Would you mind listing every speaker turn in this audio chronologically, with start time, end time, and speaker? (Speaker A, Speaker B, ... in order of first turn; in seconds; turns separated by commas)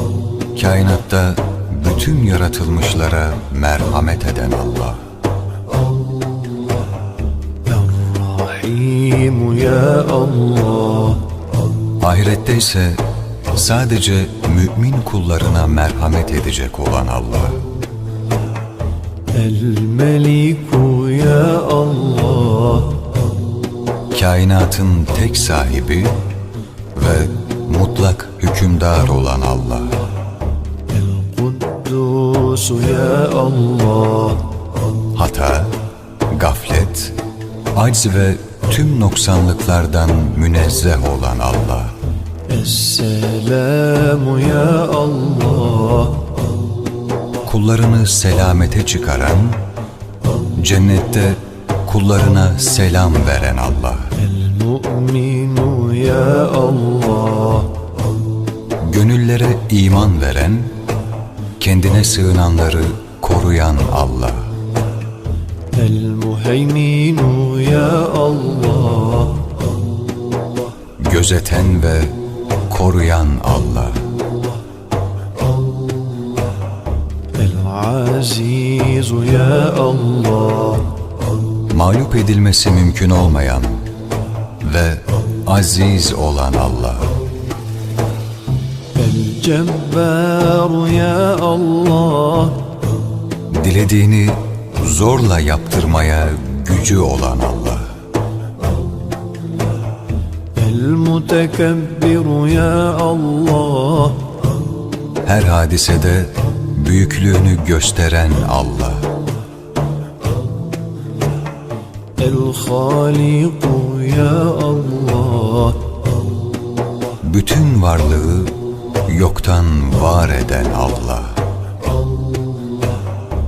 Speaker A: 0.5-5.0, Speaker B: 7.7-11.2, Speaker A: 12.0-17.6, Speaker B: 19.3-23.0, Speaker A: 24.1-26.2, Speaker A: 26.9-29.9, Speaker B: 30.9-34.5, Speaker A: 35.1-35.7, Speaker A: 36.3-37.1, Speaker A: 37.7-41.9, Speaker B: 42.5-46.3, Speaker A: 47.4-49.6, Speaker A: 50.6-54.1, Speaker B: 54.1-57.7, Speaker A: 58.8-60.7, Speaker A: 61.6-64.5, Speaker B: 65.7-69.5, Speaker A: 71.0-72.2, Speaker A: 72.7-74.0, Speaker B: 77.3-80.9, Speaker A: 81.7-83.8, Speaker A: 84.6-87.1, Speaker B: 88.9-92.6, Speaker A: 93.5-97.9, Speaker B: 100.5-104.2, Speaker A: 105.2-109.1, Speaker B: 112.2-115.8, Speaker A: 117.2-118.5, Speaker A: 119.0-121.4